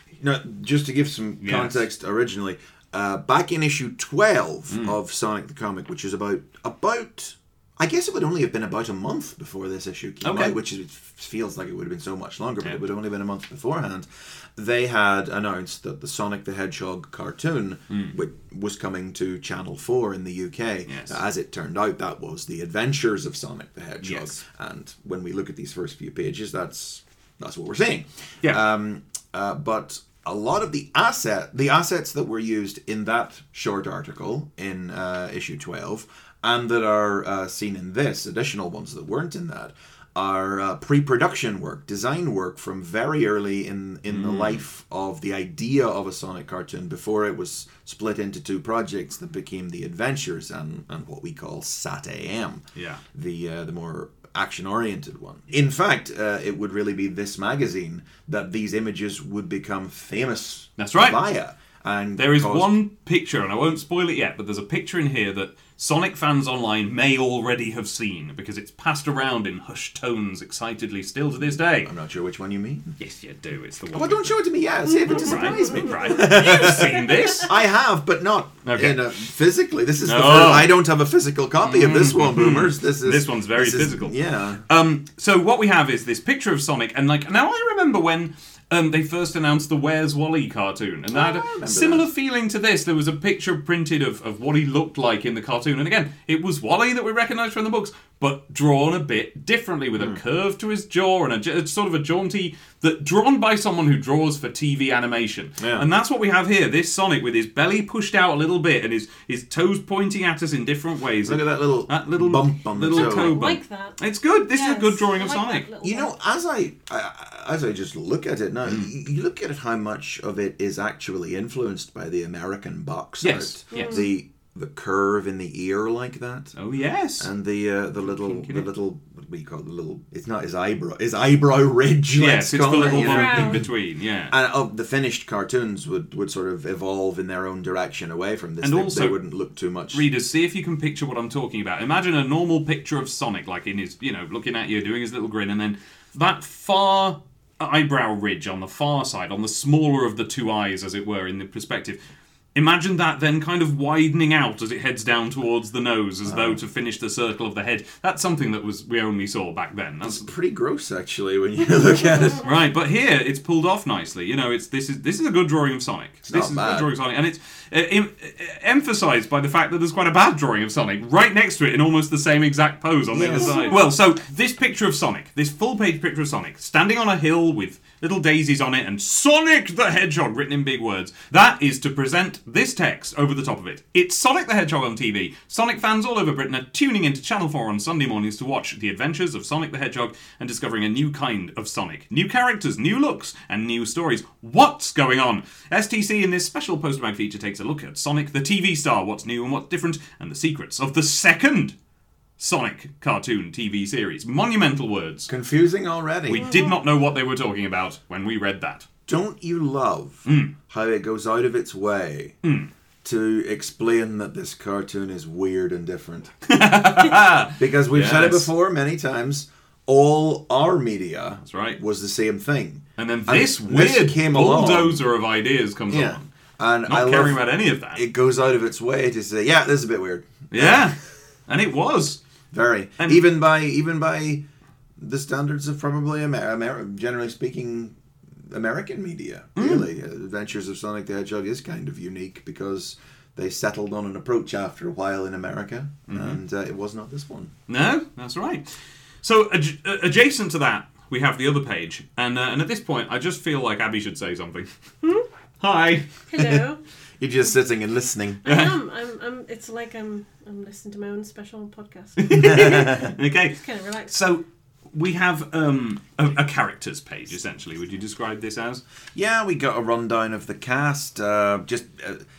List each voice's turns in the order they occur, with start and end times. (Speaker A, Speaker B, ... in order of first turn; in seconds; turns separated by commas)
Speaker A: 0.2-62.8, Speaker B: 1.4-1.8, Speaker B: 10.2-10.6, Speaker B: 20.9-21.2, Speaker B: 24.0-24.4, Speaker B: 44.1-44.6, Speaker B: 52.8-53.0, Speaker B: 60.8-61.2, Speaker B: 62.2-71.9, Speaker A: 71.8-73.0, Speaker B: 73.0-74.4, Speaker A: 73.9-84.6, Speaker C: 74.9-77.4, Speaker B: 75.2-77.5, Speaker B: 78.7-79.1, Speaker B: 80.0-80.7, Speaker B: 81.6-84.2, Speaker B: 84.7-115.7, Speaker A: 91.1-92.1, Speaker A: 105.6-105.9, Speaker A: 111.2-113.4, Speaker C: 112.9-114.0, Speaker C: 114.5-116.2, Speaker A: 115.8-126.6, Speaker B: 123.2-124.0, Speaker C: 123.7-124.1, Speaker B: 126.6-127.3, Speaker A: 127.2-133.7, Speaker B: 128.1-128.7, Speaker B: 132.2-134.3, Speaker C: 132.8-133.6, Speaker A: 134.3-140.1, Speaker B: 138.6-139.2, Speaker B: 139.9-152.0, Speaker B: 152.6-160.3, Speaker A: 156.3-156.6, Speaker A: 160.0-162.5, Speaker B: 162.4-201.8, Speaker A: 166.3-166.9, Speaker A: 173.1-173.8, Speaker C: 173.4-173.8, Speaker B: 202.4-205.3, Speaker A: 205.3-206.6, Speaker B: 206.3-208.9, Speaker C: 206.5-206.8, Speaker A: 209.1-212.4, Speaker B: 210.3-210.5, Speaker B: 212.4-212.7, Speaker A: 213.0-216.3, Speaker B: 216.5-218.5, Speaker A: 217.6-225.1, Speaker B: 221.4-221.8, Speaker B: 223.0-226.3, Speaker A: 225.9-227.4, Speaker B: 226.9-228.0, Speaker A: 227.9-230.9, Speaker B: 230.5-231.0, Speaker B: 231.5-232.2, Speaker A: 232.5-234.4, Speaker B: 233.0-233.2, Speaker A: 235.0-237.9, Speaker A: 238.5-247.5, Speaker B: 239.6-239.9, Speaker B: 246.1-246.4, Speaker B: 247.7-248.7, Speaker B: 249.2-254.7, Speaker B: 255.6-256.1, Speaker C: 256.3-256.8, Speaker A: 256.4-256.6, Speaker A: 257.2-258.5, Speaker C: 258.4-264.1, Speaker B: 258.4-258.8, Speaker B: 262.2-264.4, Speaker A: 262.4-263.1, Speaker B: 264.9-268.8, Speaker A: 269.1-272.2